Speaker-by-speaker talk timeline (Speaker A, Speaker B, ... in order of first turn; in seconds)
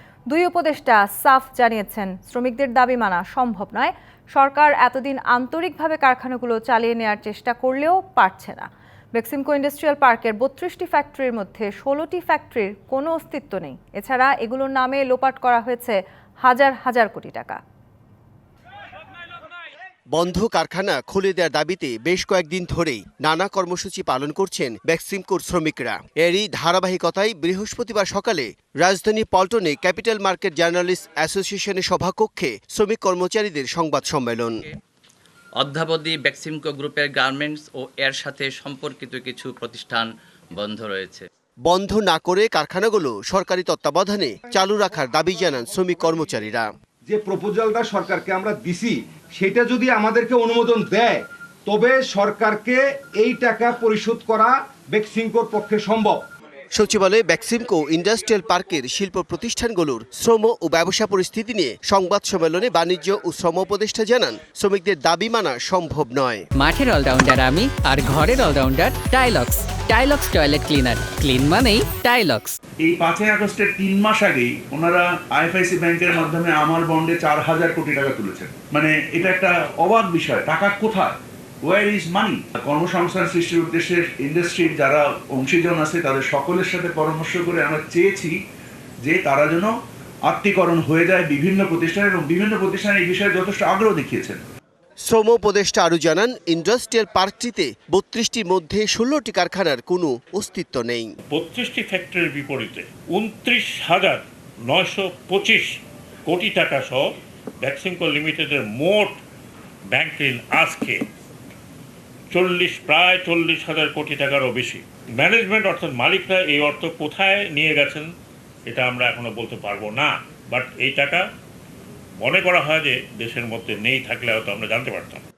Speaker A: 0.3-17.6
Speaker B: 20.1-34.6, 41.7-46.7, 56.7-66.4, 95.0-101.1
Speaker C: 35.6-41.3
Speaker D: 44.5-46.4, 47.1-56.2
Speaker E: 66.6-72.6
Speaker F: 72.8-88.3, 89.0-89.7, 90.3-94.4
Speaker G: 101.3-105.7, 106.3-107.0, 107.6-109.2, 109.9-111.0, 112.3-118.1, 118.7-121.2, 122.2-125.2